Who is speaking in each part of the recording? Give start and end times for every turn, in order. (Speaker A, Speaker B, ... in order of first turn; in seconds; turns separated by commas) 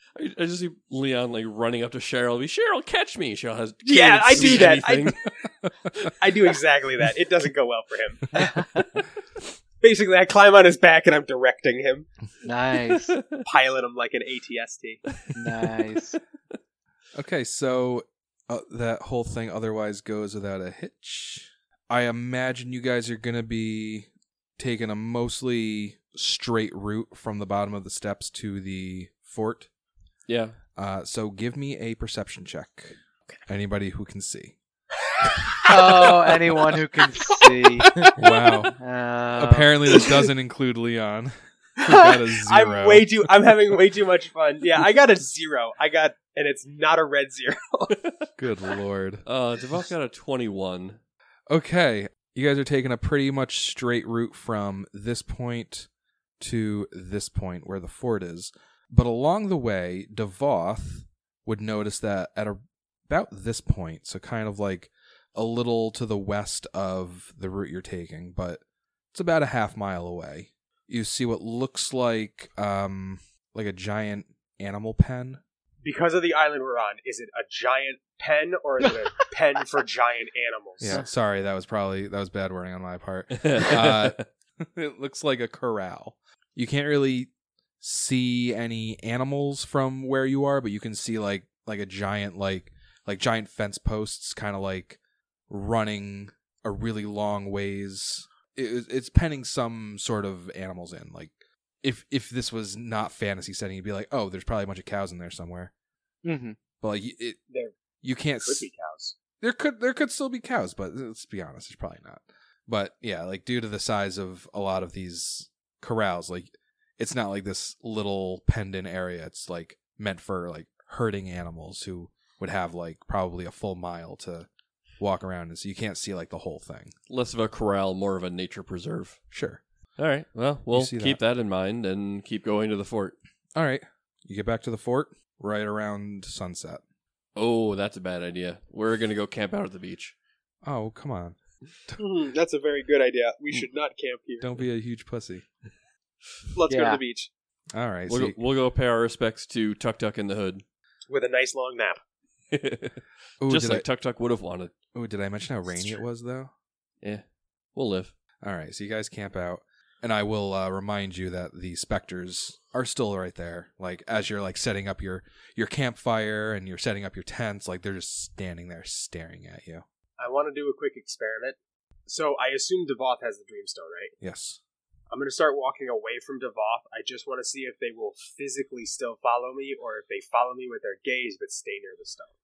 Speaker A: 0.1-5.2, Speaker B: 3.8-5.2, Speaker B: 6.2-8.4, Speaker C: 8.4-8.7, Speaker B: 9.8-12.1, Speaker C: 12.4-13.2, Speaker A: 12.8-13.4, Speaker B: 13.4-15.0, Speaker A: 15.2-15.9, Speaker C: 15.3-16.2, Speaker D: 17.1-29.7, Speaker A: 30.3-30.6, Speaker D: 30.8-34.6, Speaker C: 35.7-38.1, Speaker D: 38.2-38.8, Speaker C: 38.8-39.8, Speaker D: 39.3-43.1, Speaker B: 41.8-47.9, Speaker D: 48.4-49.2, Speaker A: 49.3-51.0, Speaker D: 51.5-55.9, Speaker D: 56.4-68.6, Speaker D: 69.1-75.4, Speaker B: 75.8-81.0, Speaker D: 80.8-105.7, Speaker A: 83.4-84.2, Speaker C: 106.2-106.6, Speaker D: 106.8-107.4, Speaker D: 108.0-108.7, Speaker B: 108.4-109.2, Speaker D: 109.4-124.5, Speaker D: 125.0-127.0, Speaker A: 127.1-129.2, Speaker D: 129.3-129.6, Speaker A: 130.0-133.2, Speaker D: 130.7-131.2, Speaker D: 133.6-136.8, Speaker A: 137.4-140.2, Speaker D: 140.6-141.4, Speaker B: 142.0-144.5, Speaker D: 144.4-145.5, Speaker B: 146.6-147.3, Speaker C: 146.7-147.0, Speaker D: 147.7-148.4, Speaker A: 148.1-150.6, Speaker B: 151.1-152.0, Speaker A: 152.5-154.7, Speaker D: 153.4-153.9, Speaker D: 154.9-156.5, Speaker A: 157.8-158.1, Speaker D: 158.4-169.8, Speaker B: 170.2-174.1, Speaker D: 174.2-174.6, Speaker B: 175.1-182.3